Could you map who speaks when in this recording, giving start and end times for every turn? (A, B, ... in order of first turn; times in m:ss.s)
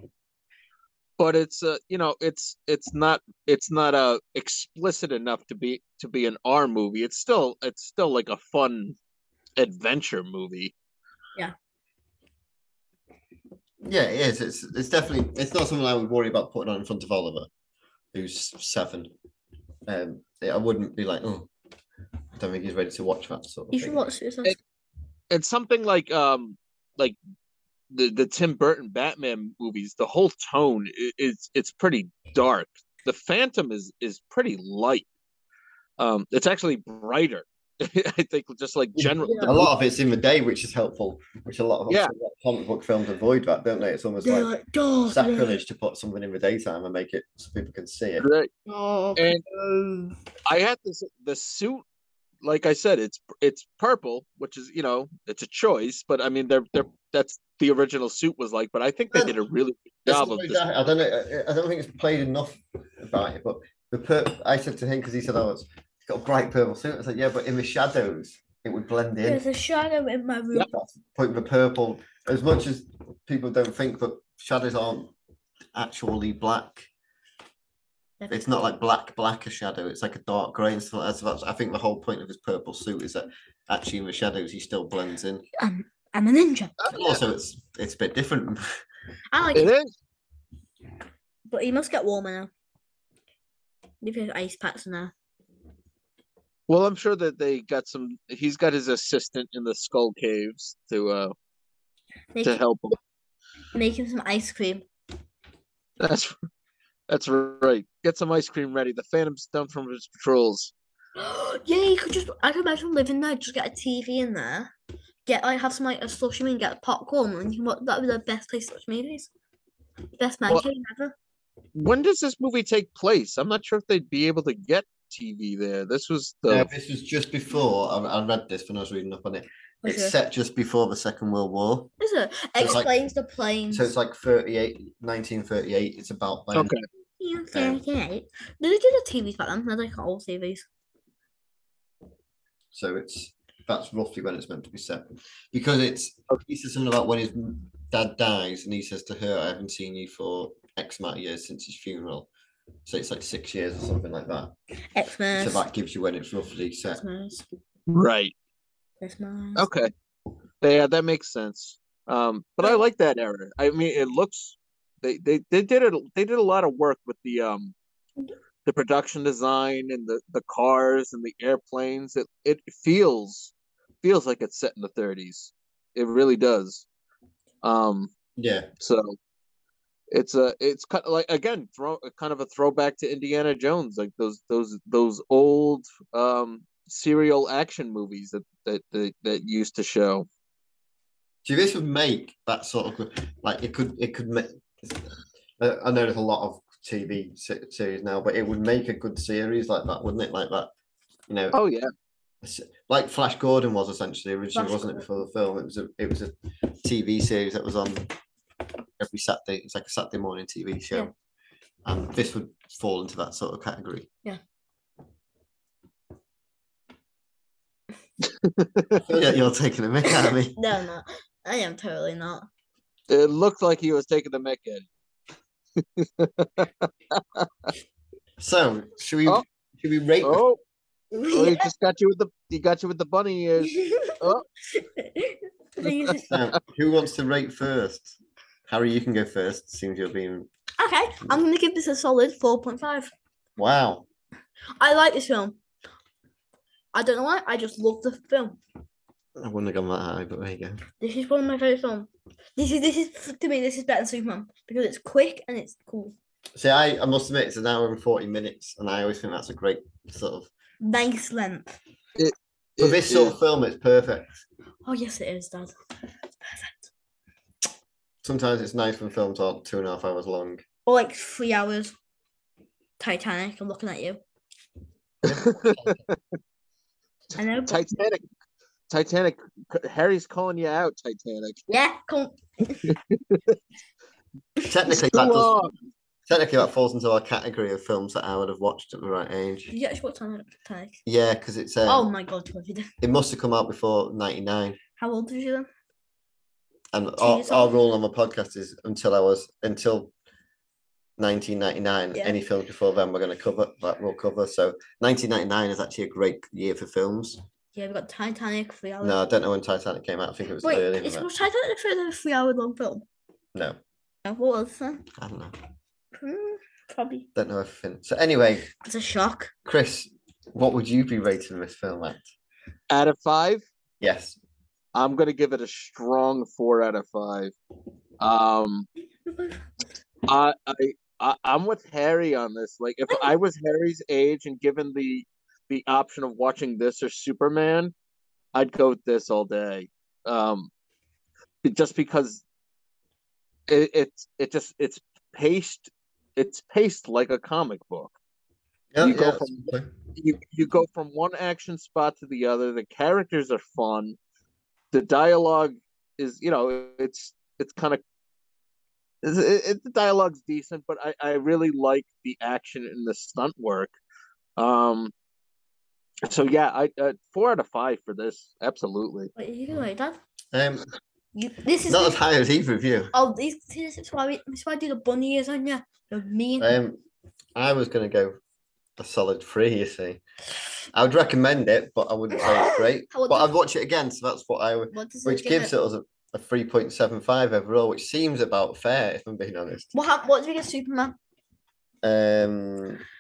0:01.2-0:09.0 A
0:09.6-0:10.7 A
0:13.8-0:17.5 B
0:18.1-0:19.1 B
0:19.9-0:21.5 B
0:22.4-0:24.0 B
0:23.7-0:24.6 C
0:25.3-0:27.2 A
0:27.9-0:35.1 A
0:36.0-0:39.7 A
0:39.0-0:44.5 B
0:39.2-0:39.6 C
0:44.2-0:45.6 C
0:45.1-0:48.3 B
0:48.2-0:48.5 A
0:48.7-0:50.1 C
0:49.2-0:49.4 A
0:50.5-0:51.8 A
0:52.4-1:00.6 A
1:00.1-1:09.4 B
1:09.2-1:10.7 C
1:10.6-1:15.1 B
1:15.8-1:16.9 B
1:18.2-1:18.5 C
1:18.3-1:25.4 B
1:25.6-1:26.8 C
1:26.9-1:28.7 B
1:29.3-1:29.7 C
1:29.6-1:29.9 A
1:31.5-1:32.5 C
1:34.0-1:35.1 C
1:36.7-1:41.4 A
1:42.3-1:42.6 C
1:42.4-1:43.0 A
1:43.7-1:44.9 C
1:46.0-1:46.3 A
1:47.1-1:50.7 A
1:51.2-1:54.7 C
1:55.3-1:59.3 C
2:00.2-2:01.2 C
2:01.8-2:06.7 A
2:06.5-2:11.9 B
2:09.8-2:10.2 C
2:12.0-2:13.9 C
2:12.6-2:12.9 B
2:13.7-2:16.7 B
2:16.5-2:16.8 A
2:17.2-2:20.7 C
2:17.5-2:17.8 B
2:22.7-2:32.3 B
2:32.9-2:34.5 B
2:34.9-2:35.6 C
2:35.4-2:37.0 B
2:36.9-2:37.5 C
2:37.9-2:38.3 A
2:39.0-2:39.7 C
2:39.6-2:39.9 A
2:40.6-2:47.8 A
2:48.6-2:56.9 A
2:57.6-2:58.1 A
2:58.4-2:58.7 B
2:58.8-2:59.2 A
3:00.1-3:10.3 A
3:11.4-3:20.7 B
3:21.3-3:21.6 B
3:21.5-3:21.9 A
3:22.4-3:28.1 B
3:24.5-3:25.0 C
3:29.0-3:31.1 B
3:31.8-3:34.1 B
3:38.4-3:39.0 A
3:39.0-3:40.6 B
3:40.6-3:42.5 C
3:43.1-3:44.9 A
3:45.8-3:47.5 A
3:48.4-3:50.4 B
3:50.2-3:50.6 A
3:51.1-3:51.7 C
3:51.3-3:54.4 A
3:53.6-3:56.3 C
3:56.3-3:58.2 B
3:58.7-4:00.5 B
4:00.8-4:03.1 C
4:03.6-4:04.1 B
4:04.8-4:05.6 C
4:06.9-4:08.6 C
4:09.4-4:10.8 B
4:11.0-4:16.2 C
4:16.6-4:20.5 B
4:20.8-4:21.8 C
4:22.2-4:23.4 A
4:22.8-4:24.3 B
4:24.8-4:25.8 C
4:26.3-4:26.9 C
4:28.2-4:30.6 B
4:30.9-4:31.9 C
4:33.0-4:34.2 C
4:35.2-4:36.0 B
4:35.2-4:36.2 A
4:37.4-4:37.9 C
4:37.7-4:38.2 A
4:38.9-4:41.6 A
4:41.7-4:42.9 C
4:42.9-4:43.6 A
4:44.7-4:45.5 B
4:45.0-4:45.7 A
4:46.3-4:49.7 B
4:49.7-4:51.0 C
4:51.0-4:52.1 B
4:51.9-4:52.9 C
4:53.0-4:54.8 B
4:55.0-4:55.7 C
4:56.9-5:00.1 B
4:57.2-4:57.8 C
5:01.2-5:07.4 B
5:07.8-5:09.2 C
5:09.0-5:11.3 B
5:10.6-5:13.1 C
5:14.2-5:15.0 C
5:15.2-5:15.6 B
5:16.2-5:17.3 C
5:17.4-5:18.7 B
5:18.8-5:19.5 C
5:19.7-5:22.3 B
5:22.9-5:23.6 A
5:24.0-5:24.4 B
5:24.9-5:27.5 A
5:28.2-5:28.9 A
5:29.3-5:29.6 C
5:30.3-5:37.9 A
5:38.5-5:40.7 A
5:41.6-5:42.4 A
5:43.7-5:48.1 A
5:48.9-5:49.9 B
5:49.0-5:54.2 A
5:54.9-5:58.0 A
5:59.2-6:03.9 A
6:04.6-6:05.1 A
6:06.2-6:09.3 A
6:09.4-6:10.2 C
6:10.5-6:10.9 B
6:11.4-6:12.2 C
6:11.9-6:13.1 B
6:13.1-6:16.7 C
6:16.6-6:17.0 B
6:17.6-6:18.4 B
6:19.0-6:20.2 B
6:20.9-6:29.9 B
6:23.1-6:23.5 C
6:24.9-6:25.7 C
6:29.9-6:31.2 C
6:32.0-6:33.0 B